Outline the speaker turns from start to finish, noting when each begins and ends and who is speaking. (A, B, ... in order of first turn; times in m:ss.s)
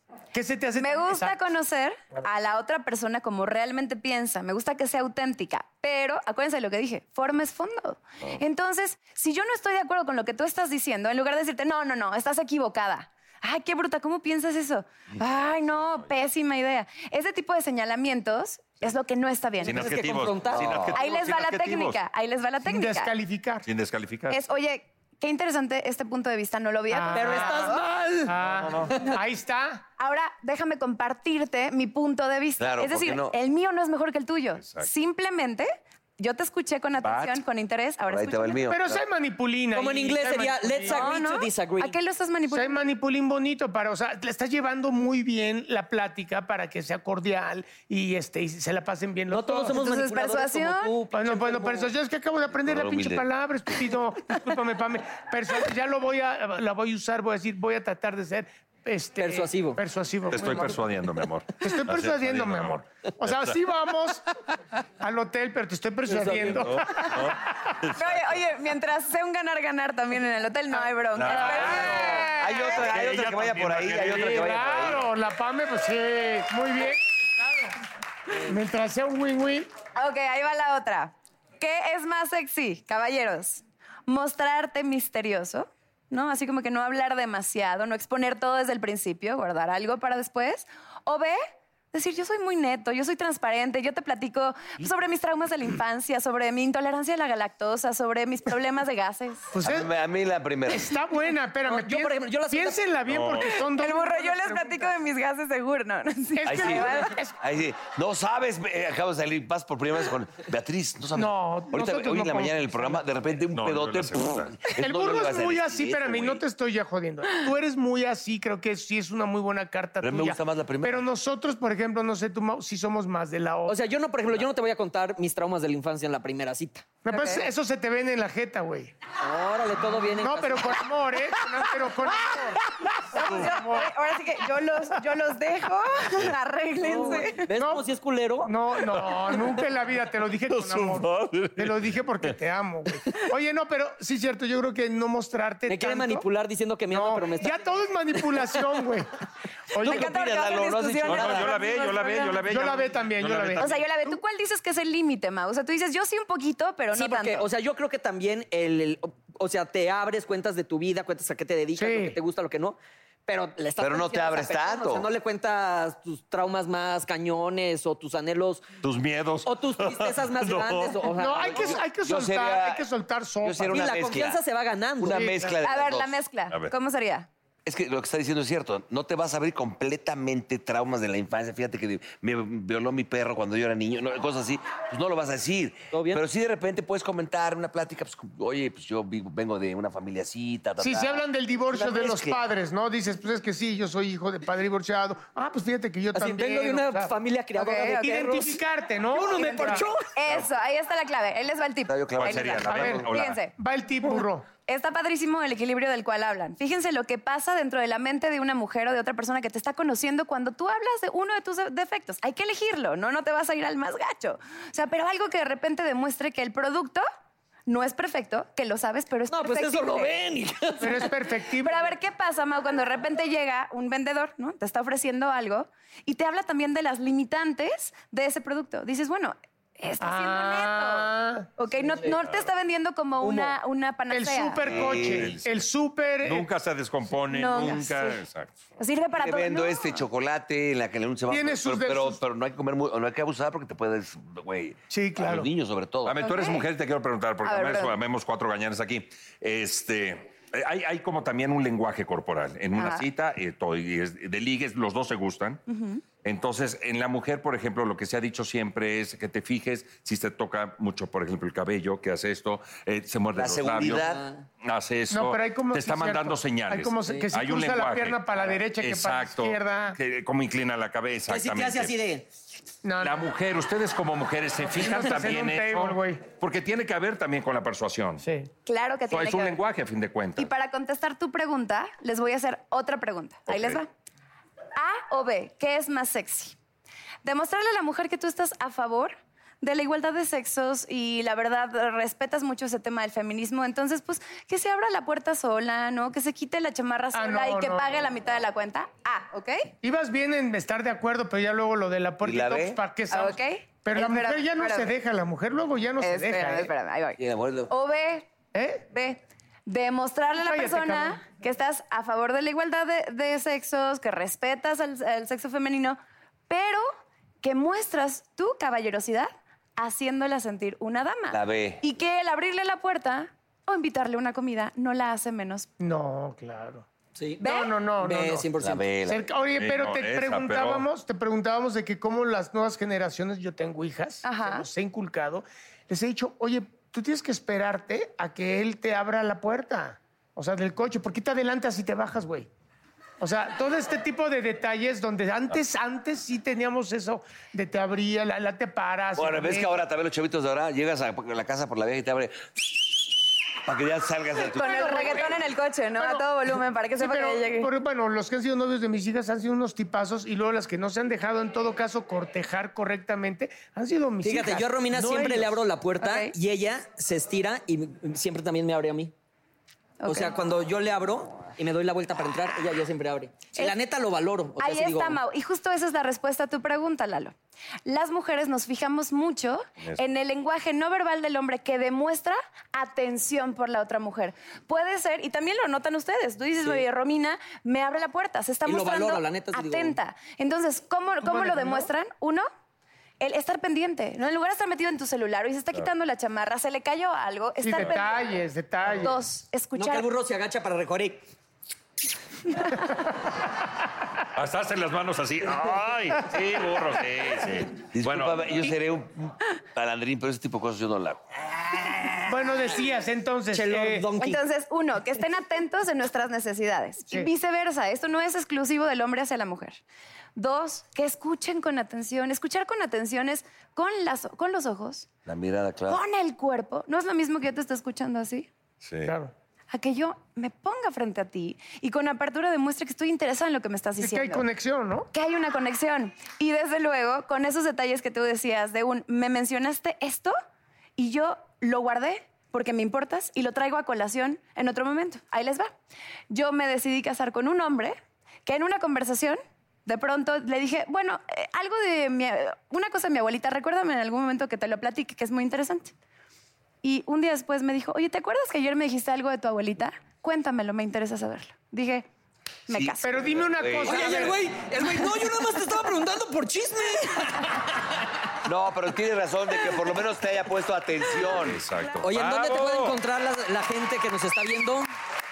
0:00.3-0:01.4 A
0:00.8-0:20.0 B
0:19.6-0:22.0 C
0:19.6-0:20.9 D
0:20.6-0:20.9 E
0:20.9-0:23.1 B
0:22.6-0:23.6 A
0:23.6-0:24.4 C
0:24.3-0:27.7 B
0:26.9-0:29.8 A
0:27.1-0:28.3 D
0:28.4-0:28.9 C
0:30.0-0:38.7 B
0:32.6-0:33.4 E
0:34.6-0:34.9 C
0:37.0-0:37.4 C
0:38.0-0:39.0 E
0:38.7-0:41.1 A
0:39.7-0:41.9 D
0:40.9-0:42.8 B
0:42.5-0:49.8 A
0:49.3-0:51.9 D
0:49.7-0:50.9 B
0:51.1-1:00.8 A
0:52.6-0:53.2 E
0:59.2-0:59.8 D
1:00.3-1:03.5 C
1:01.6-1:04.2 A
1:05.0-1:07.3 A
1:06.1-1:06.7 D
1:06.8-1:08.4 C
1:08.0-1:12.2 B
1:11.1-1:12.2 C
1:11.3-1:12.8 A
1:11.6-1:15.0 E
1:12.8-1:15.0 C
1:14.1-1:17.7 A
1:18.4-1:19.7 A
1:20.0-1:31.4 B
1:31.9-1:39.5 B
1:39.5-1:39.9 A
1:39.6-1:40.9 E
1:40.7-1:44.9 A
1:41.7-1:42.8 D
1:43.0-1:43.5 C
1:43.4-1:47.1 B
1:46.4-1:47.4 A
1:46.4-1:56.4 E
1:51.1-1:53.0 A
1:53.5-1:54.6 C
1:54.8-2:03.8 A
2:00.0-2:01.0 E
2:03.7-2:06.8 D
2:07.0-2:08.9 A
2:07.1-2:07.5 B
2:09.2-2:10.8 D
2:10.1-2:13.9 A
2:13.1-2:17.5 B
2:13.2-2:13.4 C
2:16.8-2:18.5 D
2:17.5-2:17.8 A
2:18.4-2:26.2 A
2:18.9-2:19.4 C
2:20.5-2:22.3 C
2:25.7-2:27.6 D
2:26.9-2:29.1 A
2:28.2-2:28.5 D
2:29.7-2:30.1 A
2:29.8-2:31.5 E
2:29.8-2:32.4 B
2:29.9-2:31.3 D
2:31.0-2:33.8 C
2:32.4-2:34.2 A
2:33.6-2:37.5 B
2:36.9-2:48.6 D
2:41.8-2:42.2 A
2:43.8-2:45.1 E
2:48.8-2:51.0 C
2:49.4-2:51.8 D
2:51.2-2:53.9 A
2:51.6-2:52.9 E
2:53.4-2:54.4 E
2:53.7-2:55.3 D
2:55.0-2:56.2 E
2:55.1-2:55.5 A
2:55.6-2:57.3 B
2:57.6-3:12.4 E
3:05.9-3:06.2 D
3:10.8-3:17.1 A
3:16.1-3:18.6 D
3:17.6-3:18.4 B
3:17.9-3:19.9 A
3:19.1-3:20.1 D
3:20.1-3:23.5 B
3:21.9-3:23.1 E
3:22.2-3:23.4 C
3:22.7-3:24.5 A
3:24.6-3:37.0 B
3:37.7-3:40.1 B
3:39.3-3:41.0 D
3:40.8-3:41.9 A
3:41.6-3:54.7 B
3:50.0-3:51.5 A
3:51.8-3:52.2 D
3:53.2-3:53.6 D
3:54.1-3:56.5 A
3:54.6-3:55.7 C
3:54.6-3:55.4 E
3:56.2-3:58.5 C
3:57.3-3:58.2 B
3:58.8-4:00.0 B
3:59.2-4:06.2 E
4:01.3-4:02.2 A
4:04.9-4:05.5 A
4:06.0-4:15.6 C
4:06.2-4:06.6 B
4:07.4-4:07.9 B
4:12.8-4:13.0 B
4:15.7-4:16.0 B
4:16.2-4:31.9 C
4:23.3-4:24.3 E
4:24.0-4:24.4 D
4:25.1-4:30.0 A
4:31.3-4:32.2 D
4:32.8-4:33.2 A
4:33.0-4:38.2 C
4:34.6-4:36.2 A
4:38.2-4:38.5 A
4:38.6-4:39.6 B
4:39.1-4:40.5 C
4:40.4-4:43.9 B
4:43.5-4:43.8 C
4:44.8-4:46.6 B
4:47.2-4:59.7 B
4:57.1-4:57.9 A
4:59.8-5:06.7 A
5:02.2-5:02.8 E
5:03.1-5:05.0 B
5:06.0-5:08.3 B
5:07.2-5:07.7 E
5:08.5-5:08.9 A
5:08.9-5:16.9 B
5:10.4-5:11.2 A
5:17.4-5:25.7 B
5:21.3-5:21.8 E
5:25.8-5:26.8 A
5:27.2-5:27.4 D
5:27.4-5:27.8 B
5:27.4-5:28.5 A
5:28.0-5:28.8 D
5:28.6-5:29.3 E
5:29.0-5:42.5 A
5:29.6-5:30.8 C
5:34.2-5:34.6 B
5:43.2-5:49.7 A
5:49.2-5:53.0 E
5:53.6-5:54.9 E
5:54.5-5:57.7 B
5:54.6-5:55.4 A
5:56.0-5:56.2 A
5:57.0-6:05.6 A
6:04.2-6:09.1 D
6:06.0-6:06.3 B
6:10.0-6:10.3 B
6:10.0-6:15.2 D
6:14.6-6:17.3 B
6:17.8-6:32.5 B
6:28.6-6:30.0 D
6:31.2-6:31.9 A
6:33.2-6:38.3 B
6:37.6-6:39.2 A
6:39.0-6:40.1 B
6:39.8-6:41.2 D
6:44.3-6:48.7 C
6:47.9-6:51.2 E
6:52.3-6:54.2 A
6:53.5-6:54.4 D
6:54.2-6:59.8 B
7:00.4-7:05.1 B
7:05.2-7:06.0 E
7:05.9-7:08.5 B
7:08.8-7:09.1 C
7:09.0-7:09.3 A
7:09.7-7:14.5 B
7:14.0-7:15.1 A
7:15.1-7:20.3 B
7:21.0-7:25.7 B
7:26.3-7:35.9 B
7:36.8-7:42.0 B
7:42.7-7:43.3 B
7:42.7-7:44.4 E
7:43.0-7:44.4 A
7:43.8-7:47.6 D
7:48.4-7:51.6 E
7:51.2-7:53.0 C
7:52.0-7:54.9 D